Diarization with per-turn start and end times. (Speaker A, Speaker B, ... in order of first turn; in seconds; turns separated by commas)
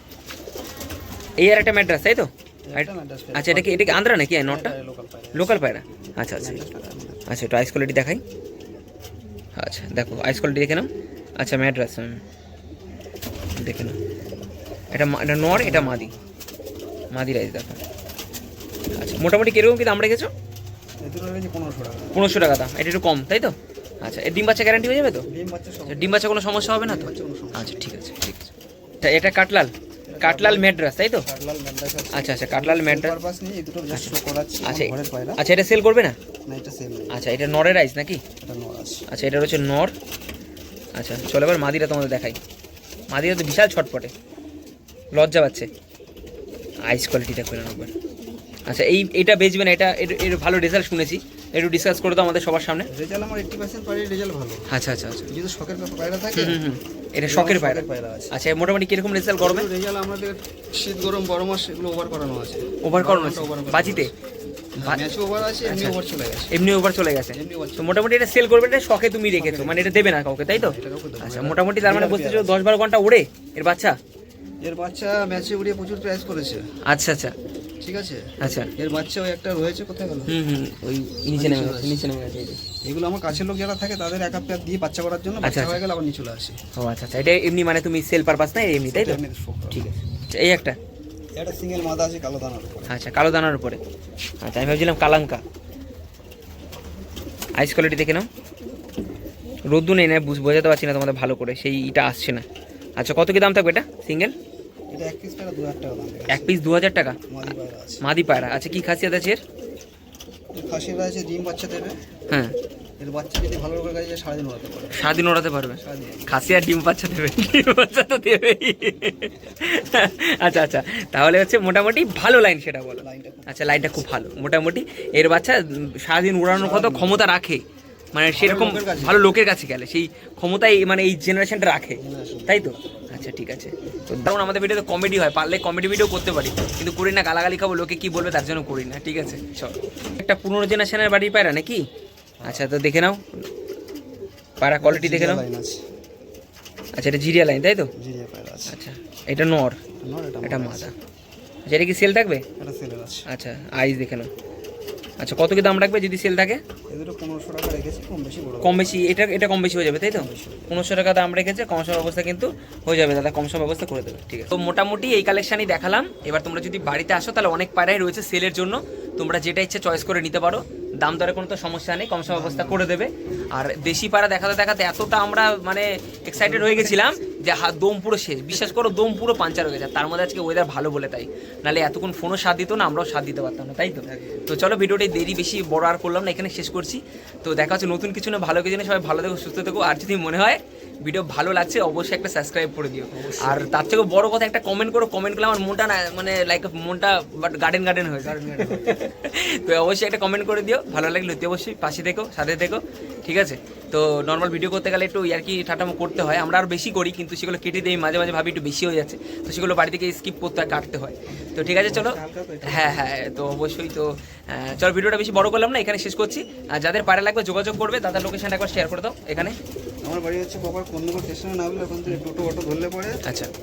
Speaker A: 1.4-4.7, Speaker B: 2.7-5.6, Speaker A: 5.3-6.6, Speaker B: 6.4-7.2, Speaker A: 7.3-8.2, Speaker A: 9.6-12.2, Speaker A: 13.6-14.0, Speaker A: 14.9-16.1, Speaker B: 15.5-16.2, Speaker A: 17.1-17.8, Speaker A: 18.9-20.3, Speaker B: 21.0-22.1, Speaker A: 22.1-25.3, Speaker B: 25.3-27.9, Speaker A: 25.9-31.3, Speaker B: 30.1-35.4, Speaker A: 32.1-33.1, Speaker A: 33.9-36.2, Speaker B: 36.5-37.2, Speaker A: 37.1-38.2, Speaker B: 38.4-39.0, Speaker A: 39.1-39.9, Speaker A: 40.9-42.4, Speaker A: 43.1-44.1, Speaker A: 45.1-45.7, Speaker A: 46.9-47.9, Speaker A: 48.7-52.9, Speaker B: 52.9-54.6, Speaker A: 54.7-55.3, Speaker B: 55.3-56.6, Speaker A: 56.3-59.7, Speaker B: 57.2-58.3, Speaker B: 59.4-64.1, Speaker A: 62.8-64.1, Speaker B: 64.8-66.6, Speaker A: 65.6-66.0, Speaker A: 66.5-73.9, Speaker B: 67.3-68.0, Speaker B: 69.3-72.6, Speaker B: 74.6-76.6, Speaker A: 76.9-77.3, Speaker B: 77.8-80.3, Speaker A: 78.4-78.7, Speaker A: 80.3-82.6, Speaker B: 81.3-82.0, Speaker B: 82.8-86.6, Speaker A: 85.4-85.8, Speaker A: 86.8-89.2, Speaker B: 88.9-89.9, Speaker A: 89.7-90.8, Speaker B: 91.3-93.0, Speaker A: 92.9-93.8, Speaker A: 94.4-95.4, Speaker A: 97.6-98.3, Speaker A: 99.7-102.4, Speaker A: 103.0-104.3, Speaker B: 104.9-106.5, Speaker A: 106.3-109.4, Speaker B: 107.3-108.0, Speaker B: 110.5-112.0, Speaker B: 113.0-115.1, Speaker A: 114.9-127.6, Speaker B: 115.8-116.6, Speaker B: 123.0-124.1, Speaker B: 126.5-127.2, Speaker A: 128.1-141.8, Speaker B: 128.3-129.3, Speaker B: 132.0-133.3, Speaker B: 142.4-142.7, Speaker A: 142.4-143.5, Speaker A: 144.6-145.4, Speaker B: 144.8-145.8, Speaker A: 146.9-147.9, Speaker B: 148.0-148.8, Speaker A: 148.7-149.8, Speaker B: 150.0-150.9, Speaker A: 150.4-150.9, Speaker A: 151.7-152.4, Speaker B: 152.6-153.3, Speaker A: 153.3-154.3, Speaker A: 155.2-156.6, Speaker B: 156.9-158.9, Speaker A: 158.6-219.6, Speaker B: 160.1-160.8, Speaker B: 172.3-172.9, Speaker B: 176.4-177.2, Speaker B: 184.1-184.4, Speaker B: 193.1-193.7, Speaker B: 198.2-199.0, Speaker B: 211.5-213.1, Speaker B: 220.0-223.2, Speaker A: 223.2-223.5